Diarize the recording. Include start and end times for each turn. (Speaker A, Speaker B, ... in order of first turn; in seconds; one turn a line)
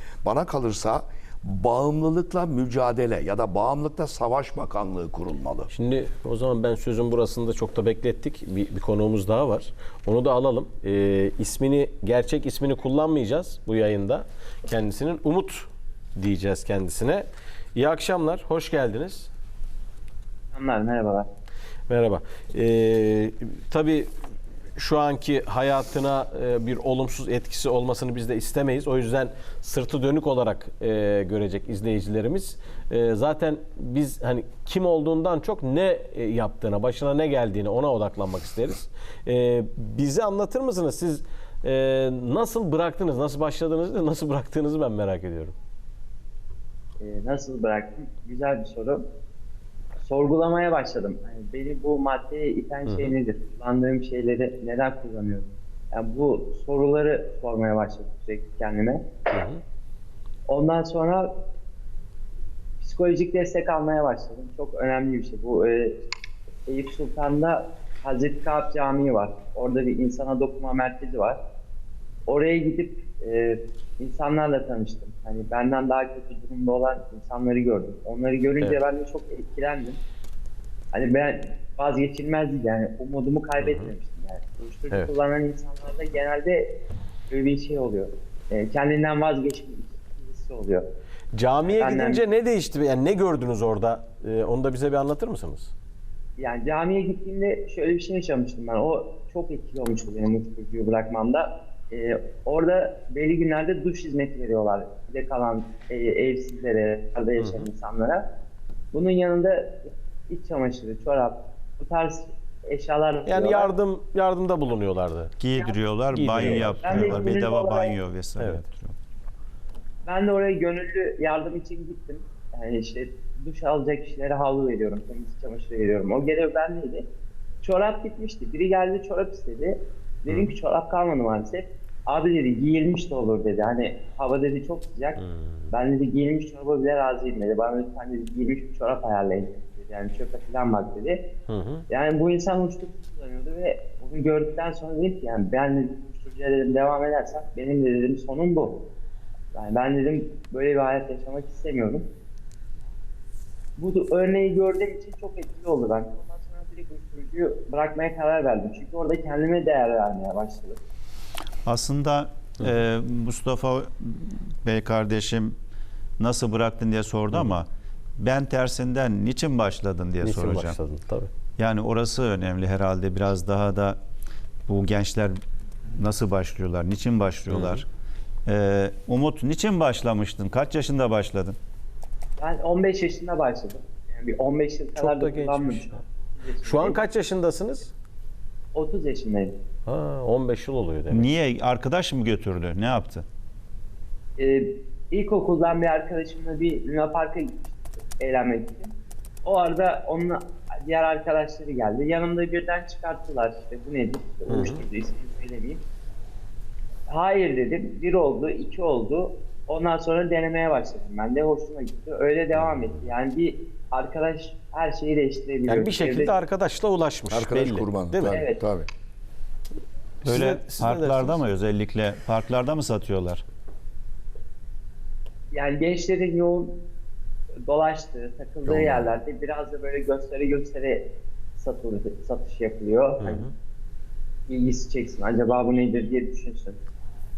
Speaker A: 0.2-5.7
Speaker B: 5.7-19.3
Speaker C: 20.5-21.3
Speaker B: 21.9-24.1
Speaker B: 24.8-45.5
Speaker C: 47.0-49.0
Speaker C: 50.0-59.0
Speaker B: 52.9-53.1
Speaker B: 59.3-59.6
Speaker C: 60.5-61.3
Speaker C: 62.8-66.0
Speaker C: 66.7-71.4
Speaker C: 72.3-80.0
Speaker C: 80.9-86.7
Speaker B: 83.6-83.9
Speaker C: 87.3-90.8
Speaker B: 91.3-95.7
Speaker C: 91.6-92.2
Speaker C: 96.4-108.2
Speaker B: 107.4-107.7
Speaker C: 108.9-113.7
Speaker B: 113.2-115.3
Speaker D: 115.4-119.0
Speaker B: 116.1-117.3
Speaker C: 116.4-117.9
Speaker B: 118.4-118.6
Speaker C: 120.0-127.0
Speaker C: 127.6-141.2
Speaker B: 135.2-135.7
Speaker B: 141.5-141.8
Speaker C: 141.9-148.8
Speaker C: 149.5-152.0
Speaker C: 153.8-160.8
Speaker D: 161.6-165.5
Speaker D: 166.2-167.7
Speaker D: 168.2-170.8
Speaker B: 170.2-171.3
Speaker D: 171.6-174.0
Speaker D: 174.7-175.4
Speaker D: 176.0-177.8
Speaker B: 177.5-177.8
Speaker D: 178.4-181.6
Speaker C: 182.4-187.0
Speaker B: 184.9-186.0
Speaker B: 186.6-187.9
Speaker C: 188.7-189.5
Speaker B: 189.8-191.3
Speaker D: 191.1-193.2
Speaker C: 194.4-198.9
Speaker C: 199.4-205.8
Speaker B: 204.5-204.8
Speaker C: 207.1-216.4
Speaker B: 212.5-213.1
Speaker B: 215.7-218.4
Speaker A: 217.3-218.9
Speaker C: 218.3-218.6
Speaker B: 220.2-221.4
Speaker D: 220.2-223.4
Speaker C: 225.5-226.7
Speaker C: 227.7-231.0
Speaker A: 228.6-229.1
Speaker C: 231.6-233.5
Speaker B: 233.2-233.5
Speaker C: 234.5-236.8